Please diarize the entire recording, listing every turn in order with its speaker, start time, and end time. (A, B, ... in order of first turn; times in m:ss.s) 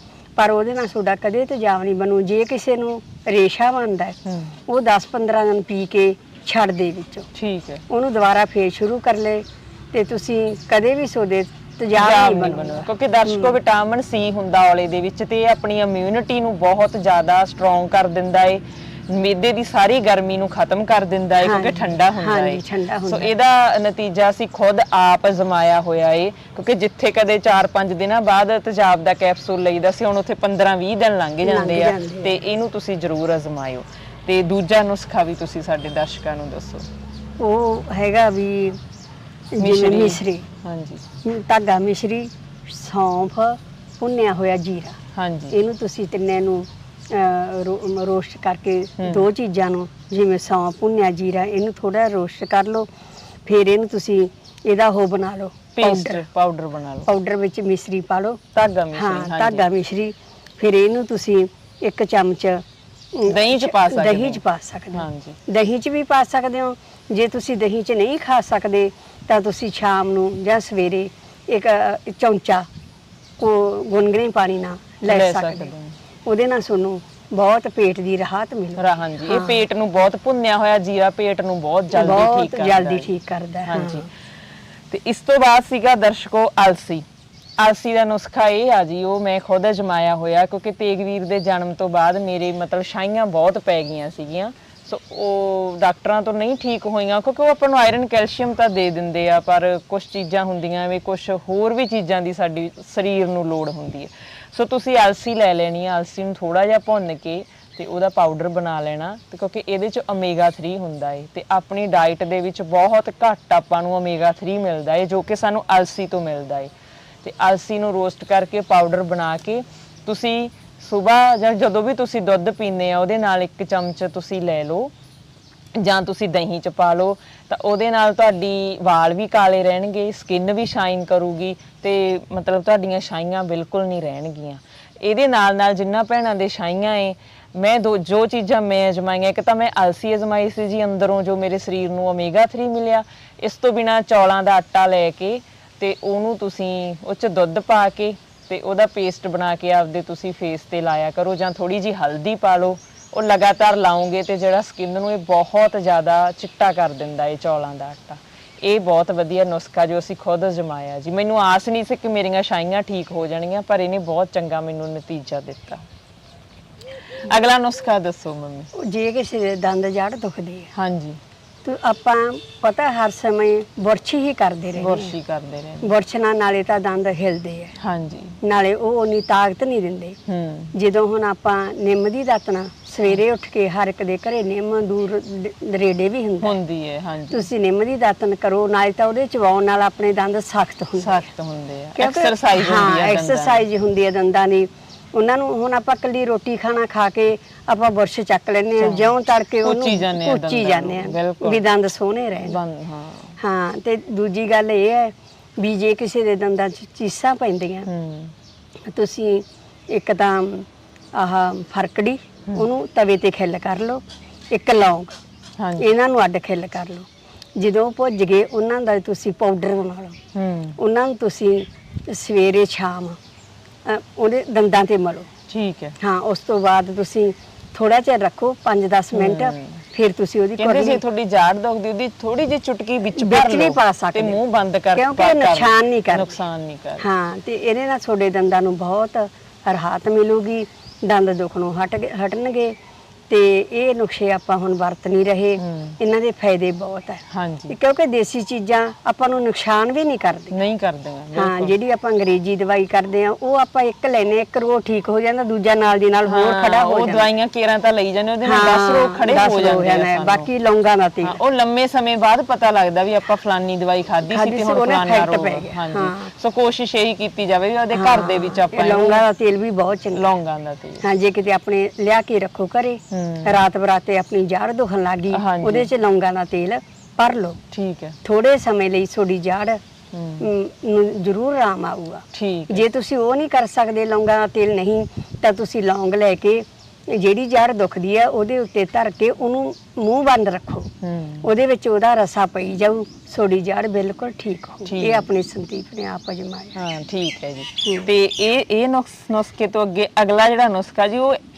0:00.4-0:04.2 A
0:04.2-0:04.6 B
0:04.7-0:07.3 A
0:07.4-0:07.8 B
0:07.9-0:13.6 A
0:12.0-0:36.9 B
0:21.4-0:23.3 A
0:31.4-0:32.4 A
0:37.4-0:38.8 A
0:39.5-0:40.5 A
0:39.6-0:41.0 B
0:41.2-0:45.0 A
0:45.1-0:45.6 B
0:45.5-0:52.9 A
0:49.0-0:49.3 B
0:53.4-0:56.2 A
0:55.8-0:57.1 B
0:57.1-0:58.4 A
0:58.6-0:59.7 B
0:58.9-1:12.7 A
1:03.3-1:04.4 B
1:04.9-1:05.4 B
1:13.4-1:15.7 A
1:15.1-1:16.0 B
1:16.2-1:19.6 A
1:18.8-1:23.1 B
1:21.9-1:24.0 A
1:23.7-1:24.1 B
1:24.9-1:27.0 B
1:27.6-1:56.7 B
1:57.2-2:04.9 B
2:05.8-2:45.8 B
2:47.2-2:48.7 B
2:48.8-2:50.7 A
2:50.8-2:51.2 B
2:51.6-2:55.1 A
2:54.8-2:55.9 B
2:55.8-2:57.8 A
2:57.8-2:58.4 B
2:58.4-3:00.2 A
3:00.3-3:00.7 B
3:00.7-3:06.6 A
3:06.4-3:07.5 B
3:07.3-3:11.2 A
3:11.0-3:13.6 B
3:12.0-3:22.6 A
3:18.8-3:19.1 B
3:19.6-3:21.6 B
3:22.4-3:23.4 B
3:23.4-3:27.9 A
3:27.9-3:28.3 B
3:28.9-3:35.2 A
3:35.6-3:35.9 B
3:35.8-3:40.2 A
3:40.3-3:40.8 B
3:40.8-3:43.2 A
3:43.8-3:45.3 A
3:45.5-3:46.0 B
3:46.0-3:51.0 A
3:49.1-3:49.8 B
3:50.6-3:57.0 B
3:53.2-3:54.4 A
3:55.0-3:56.4 A
3:57.0-4:02.8 A
4:03.3-4:10.6 A
4:05.6-4:06.0 B
4:07.3-4:07.8 B
4:10.5-4:11.7 B
4:11.4-4:17.3 A
4:16.3-4:20.5 B
4:18.4-4:21.4 A
4:21.2-4:29.2 B
4:24.3-4:26.3 A
4:27.9-4:30.3 A
4:30.1-4:31.0 B
4:31.0-4:37.6 A
4:33.1-4:33.5 B
4:35.3-4:35.9 B
4:37.7-4:38.2 B
4:38.2-4:39.8 A
4:40.1-4:40.5 B
4:40.4-4:50.9 A
4:42.3-4:42.9 B
4:51.0-4:51.5 B
4:51.4-4:56.8 A
4:54.8-4:55.3 B
4:56.8-5:01.4 B
4:57.8-4:58.1 A